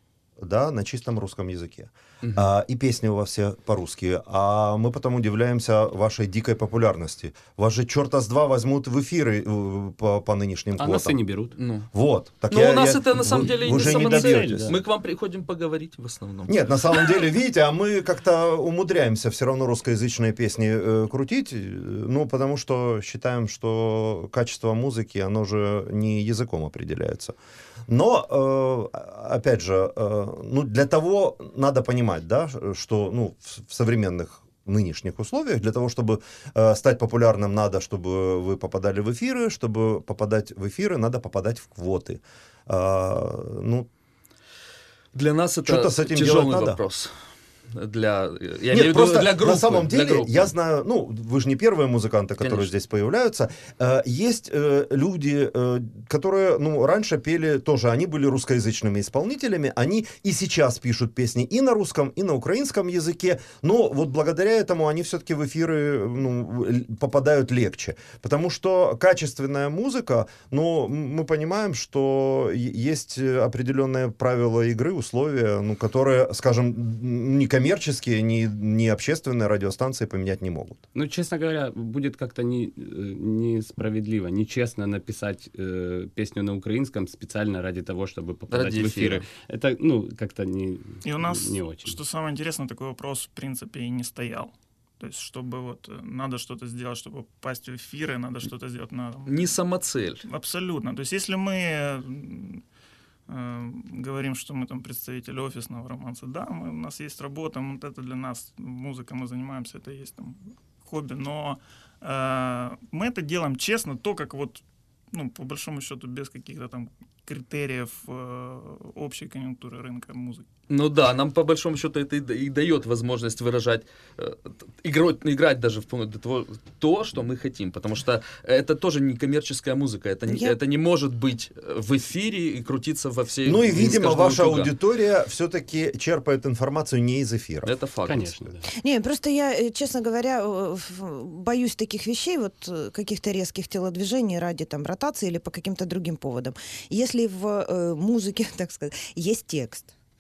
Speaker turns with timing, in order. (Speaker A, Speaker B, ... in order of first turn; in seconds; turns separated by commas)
Speaker A: 0.4-11.2, Speaker B: 10.8-11.6, Speaker C: 11.6-11.9, Speaker A: 11.9-14.7, Speaker C: 12.5-17.1, Speaker B: 13.2-14.8, Speaker A: 16.5-27.4, Speaker A: 27.9-43.9, Speaker C: 45.1-47.1, Speaker A: 45.7-46.8, Speaker C: 47.7-50.5, Speaker A: 48.7-80.8, Speaker C: 52.4-52.7, Speaker B: 80.9-92.0, Speaker C: 88.5-89.2, Speaker D: 91.0-99.5, Speaker C: 99.3-100.3, Speaker D: 100.2-102.6, Speaker D: 103.3-120.5, Speaker C: 120.7-134.8, Speaker E: 130.3-130.6, Speaker A: 133.5-137.7, Speaker C: 137.6-138.4, Speaker B: 138.1-138.7, Speaker E: 138.8-149.9